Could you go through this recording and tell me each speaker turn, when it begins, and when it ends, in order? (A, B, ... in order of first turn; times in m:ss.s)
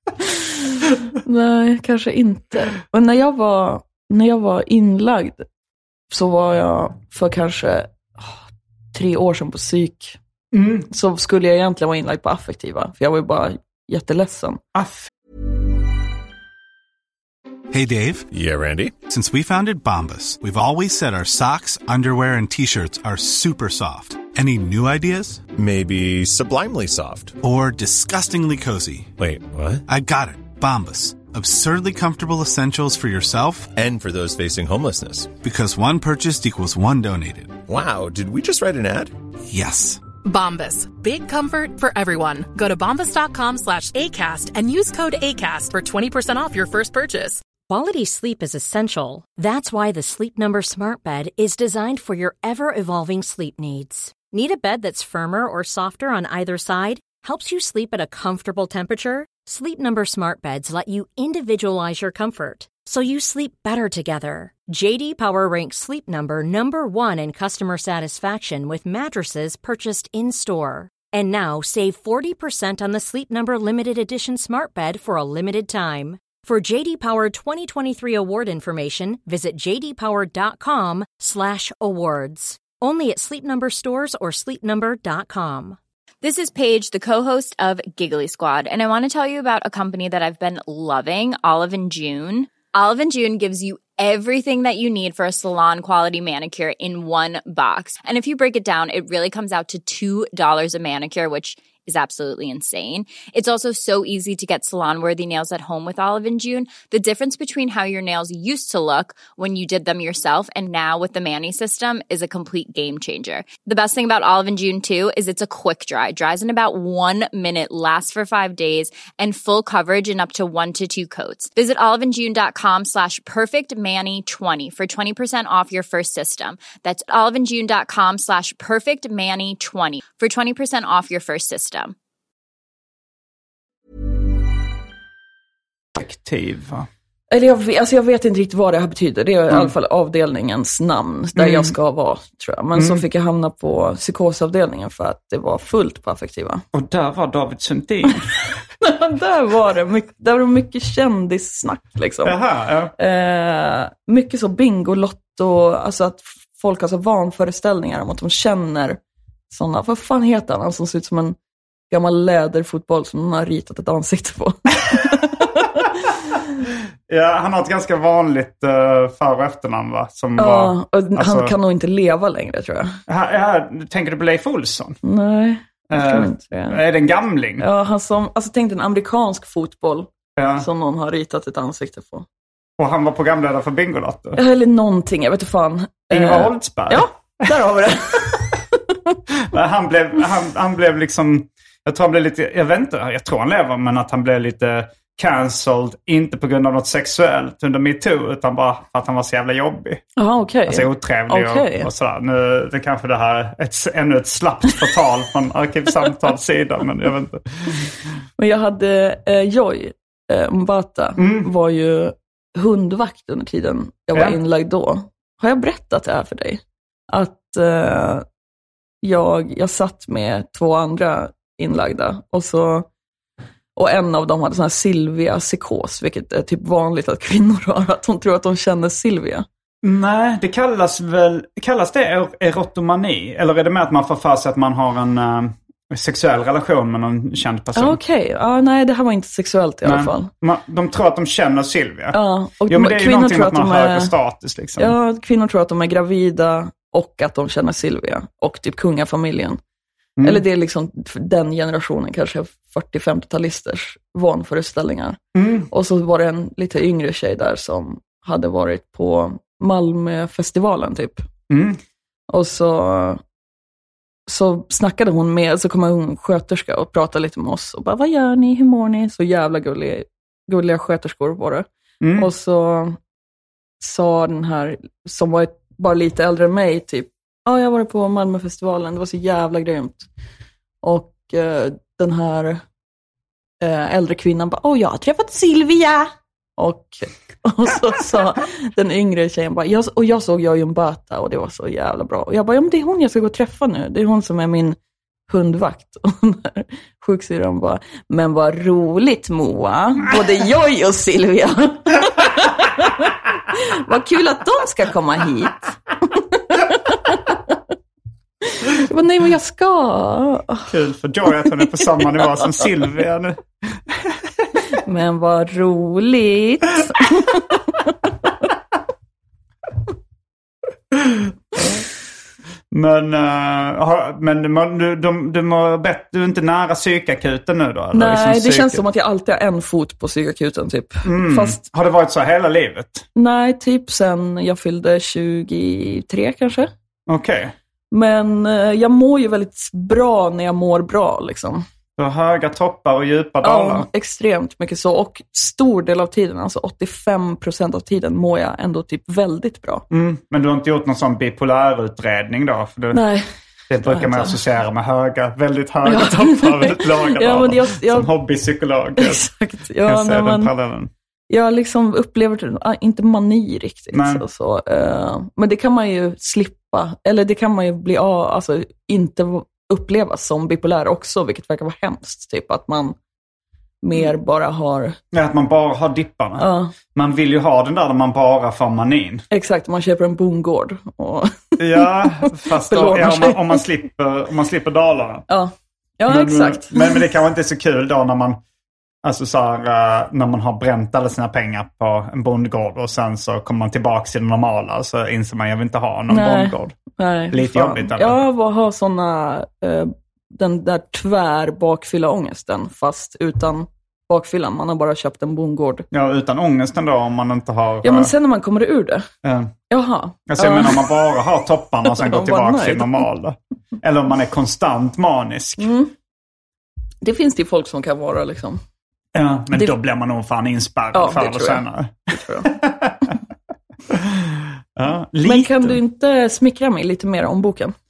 0:01.2-0:05.4 A
0:06.1-0:10.2 A
0:10.5-0:10.9 B
0:10.9-0:14.6 A
0:14.7-0:15.1 B
0:17.7-0:18.2 C
0:18.3-0:19.0 D
0:19.0-0:25.4 C
0:25.5-0:27.4 D
0:27.4-0:29.1 C
0:29.2-0:29.8 D
0:29.9-0:33.7 C
0:33.8-0:35.3 D
0:35.4-0:37.6 C
0:37.6-0:39.1 D
0:39.5-0:40.0 C
0:40.2-0:47.4 E
0:47.6-1:25.8 F
1:26.2-2:11.9 G
2:16.0-2:16.9 B
2:17.3-2:26.6 A
2:21.4-2:21.7 B
2:22.8-2:23.0 B
2:26.7-2:28.4 B
2:28.8-2:32.4 A
2:32.2-2:32.9 B
2:33.0-2:39.0 A
2:39.5-2:41.4 A
2:41.9-2:45.8 A
2:47.1-2:51.5 B
2:50.4-2:53.0 A
2:53.1-2:55.0 B
2:55.0-2:56.8 A
2:55.9-2:57.6 B
2:57.6-3:02.2 A
3:00.4-3:00.6 B
3:02.8-3:04.4 B
3:04.4-3:09.2 A
3:06.1-3:07.4 B
3:09.4-3:20.0 B
3:20.2-3:21.9 A
3:20.7-3:27.9 B
3:28.4-3:38.2 A
3:31.2-3:31.5 B
3:39.0-3:42.9 A
3:43.7-3:49.4 A
3:49.8-3:58.0 B
3:57.8-4:00.3 A
3:59.8-4:05.0 B
4:02.1-4:04.1 A
4:04.8-4:09.6 A
4:10.2-4:10.4 B
4:10.2-4:15.2 A
4:15.3-4:15.7 B
4:15.7-4:21.2 A
4:21.5-4:21.8 B
4:22.3-4:23.2 A
4:24.3-4:33.0 A
4:32.0-4:32.3 B
4:33.8-4:40.1 A
4:40.8-4:42.6 A
4:43.6-4:54.8 A
4:55.3-5:07.6 A
5:08.6-5:10.7 A
5:10.7-5:14.1 B
5:14.8-5:17.6 A
5:22.7-5:28.8 B
5:27.9-5:31.6 A
5:31.0-5:33.0 B
5:33.2-5:36.7 A
5:37.1-5:37.5 B
5:37.9-5:41.6 A
5:42.0-5:43.9 B
5:43.4-5:49.8 A
5:49.9-5:53.0 B
5:52.9-5:53.2 A
5:53.7-5:59.2 B
5:53.8-5:54.3 A
5:55.8-5:58.1 A
5:59.0-6:00.5 A
5:59.8-6:00.9 B
6:01.3-6:13.0 A
6:03.9-6:04.2 B
6:13.8-6:15.0 A
6:15.1-6:19.2 B
6:16.4-6:16.7 A
6:19.3-6:21.9 A
6:21.6-6:25.2 B
6:22.7-6:23.6 A
6:25.3-6:27.0 A
6:26.1-6:28.4 B
6:29.0-6:36.8 B
6:36.1-6:45.8 A
6:37.3-6:38.2 B
6:45.9-6:48.1 B
6:47.8-6:49.1 A
6:49.2-6:49.5 B
6:49.7-6:50.8 A
6:50.3-6:55.7 B
6:51.8-6:53.0 A
6:55.6-6:55.9 A
6:57.0-6:58.6 A
6:59.1-7:03.1 B
7:00.9-7:02.5 A
7:03.9-7:05.8 B
7:05.2-7:07.7 A